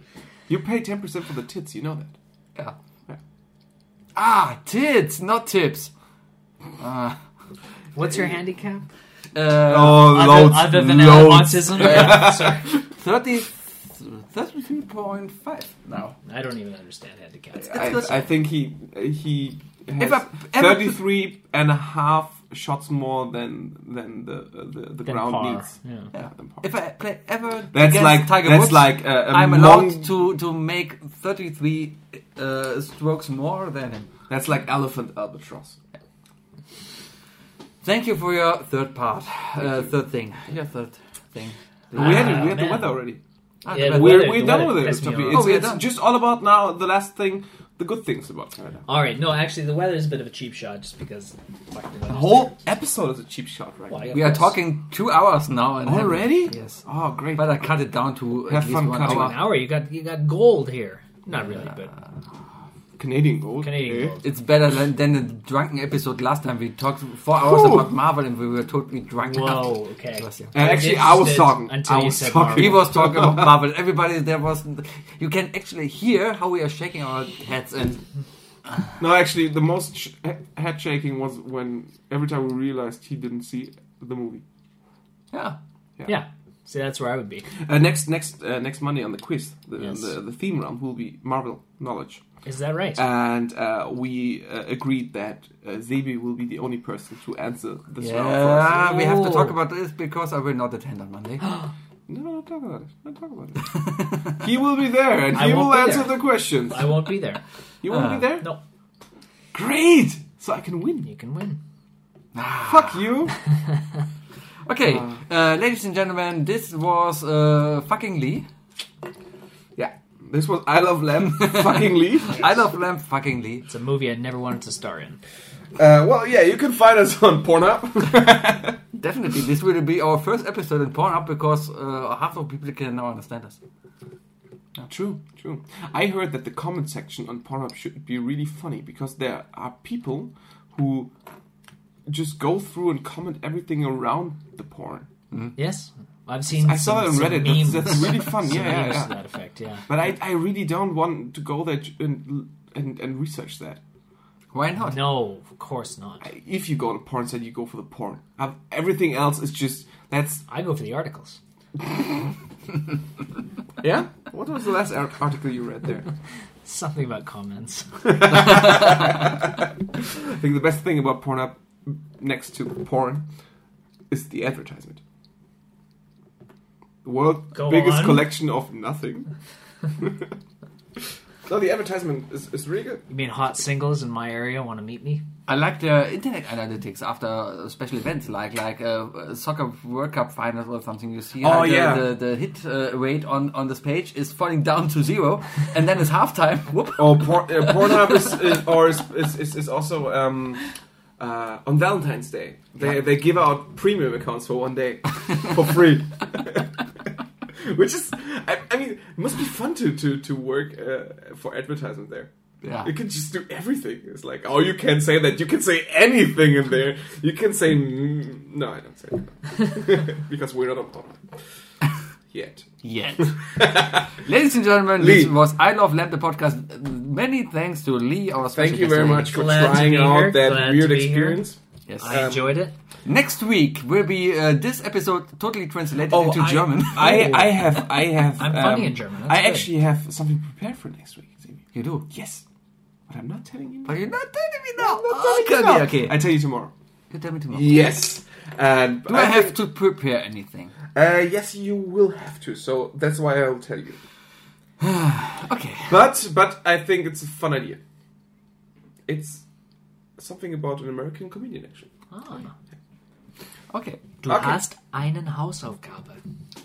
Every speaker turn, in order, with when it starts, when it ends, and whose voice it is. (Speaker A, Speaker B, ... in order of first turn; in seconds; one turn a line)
Speaker A: 0.5-2.1
Speaker B: 4.2-5.9
Speaker B: 6.8-7.2
Speaker C: 8.0-8.9
Speaker B: 9.3-10.5
Speaker A: 9.6-12.7
Speaker C: 10.0-12.7
Speaker B: 11.8-12.3
Speaker B: 13.0-16.2
Speaker C: 16.3-18.0
Speaker A: 17.6-26.7
Speaker B: 17.7-18.3
Speaker B: 20.0-21.0
Speaker C: 25.1-26.1
Speaker B: 26.1-34.1
Speaker A: 27.7-30.2
Speaker A: 34.3-35.8
Speaker B: 37.8-42.5
Speaker A: 39.6-39.9
Speaker C: 41.9-43.0
Speaker A: 41.9-43.2
Speaker B: 43.6-45.9
Speaker C: 43.7-45.5
Speaker A: 43.7-48.9
Speaker C: 48.9-52.5
Speaker A: 52.1-54.4
Speaker C: 53.9-54.5
Speaker B: 54.1-56.8
Speaker A: 55.8-57.7
Speaker B: 57.4-59.4
Speaker A: 58.5-59.5
Speaker C: 59.0-61.9
Speaker A: 63.0-64.2
Speaker C: 63.6-64.3
Speaker B: 64.2-70.5
Speaker A: 67.4-67.9
Speaker C: 69.2-72.8
Speaker A: 70.5-73.6
Speaker B: 72.6-78.0
Speaker A: 79.0-84.4
Speaker B: 85.3-85.6
Speaker C: 86.0-87.5
Speaker A: 87.6-92.2
Speaker C: 89.8-90.1
Speaker C: 92.5-93.0
Speaker A: 93.0-99.2
Speaker B: 98.0-101.5
Speaker C: 98.8-99.5
Speaker C: 101.4-101.7
Speaker A: 102.1-107.0
Speaker B: 103.8-104.2
Speaker C: 105.3-107.4
Speaker A: 107.8-108.5
Speaker B: 107.9-108.3
Speaker B: 109.5-110.2
Speaker A: 110.2-111.1
Speaker C: 111.0-111.6
Speaker B: 112.3-113.1
Speaker A: 112.6-113.4
Speaker B: 114.6-118.5
Speaker A: 114.9-115.2
Speaker A: 119.8-122.5
Speaker B: 121.2-123.7
Speaker C: 123.7-125.2
Speaker A: 125.8-128.8
Speaker B: 128.9-133.6
Speaker A: 134.8-141.1
Speaker A: 142.1-145.1
Speaker C: 145.6-149.9
Speaker A: 146.5-149.2
Speaker A: 149.9-153.8
Speaker B: 154.5-155.2
Speaker C: 154.8-156.3
Speaker A: 156.2-160.5
Speaker C: 160.5-161.4
Speaker A: 163.8-166.1
Speaker C: 166.7-168.2
Speaker A: 168.1-173.3
Speaker A: 174.1-175.0
Speaker A: 177.0-179.3
Speaker C: 177.5-178.3
Speaker A: 180.0-180.3
Speaker A: 181.5-183.0
Speaker C: 183.1-185.2
Speaker B: 185.5-198.3
Speaker A: 191.4-192.2
Speaker A: 197.0-200.6
Speaker A: 201.2-206.8
Speaker A: 207.6-221.3
Speaker B: 212.6-212.9
Speaker A: 222.3-224.2
Speaker B: 222.8-229.4
Speaker A: 225.0-225.3
Speaker A: 228.6-232.6
Speaker C: 229.3-231.5
Speaker B: 231.9-232.3
Speaker C: 232.0-232.8
Speaker B: 233.1-237.5
Speaker A: 236.1-242.4
Speaker C: 237.0-237.6
Speaker C: 238.4-239.7
Speaker B: 241.7-242.1
Speaker A: 243.1-244.0
Speaker B: 243.9-246.2
Speaker A: 244.8-246.7
Speaker B: 247.1-247.9
Speaker A: 247.5-249.6
Speaker B: 249.1-250.7
Speaker A: 250.9-254.0
Speaker B: 254.8-256.0
Speaker A: 255.9-257.8
Speaker A: 259.1-259.4
Speaker A: 260.2-261.9
Speaker C: 262.1-262.5
Speaker B: 263.7-264.1
Speaker C: 264.2-266.2
Speaker A: 264.3-264.6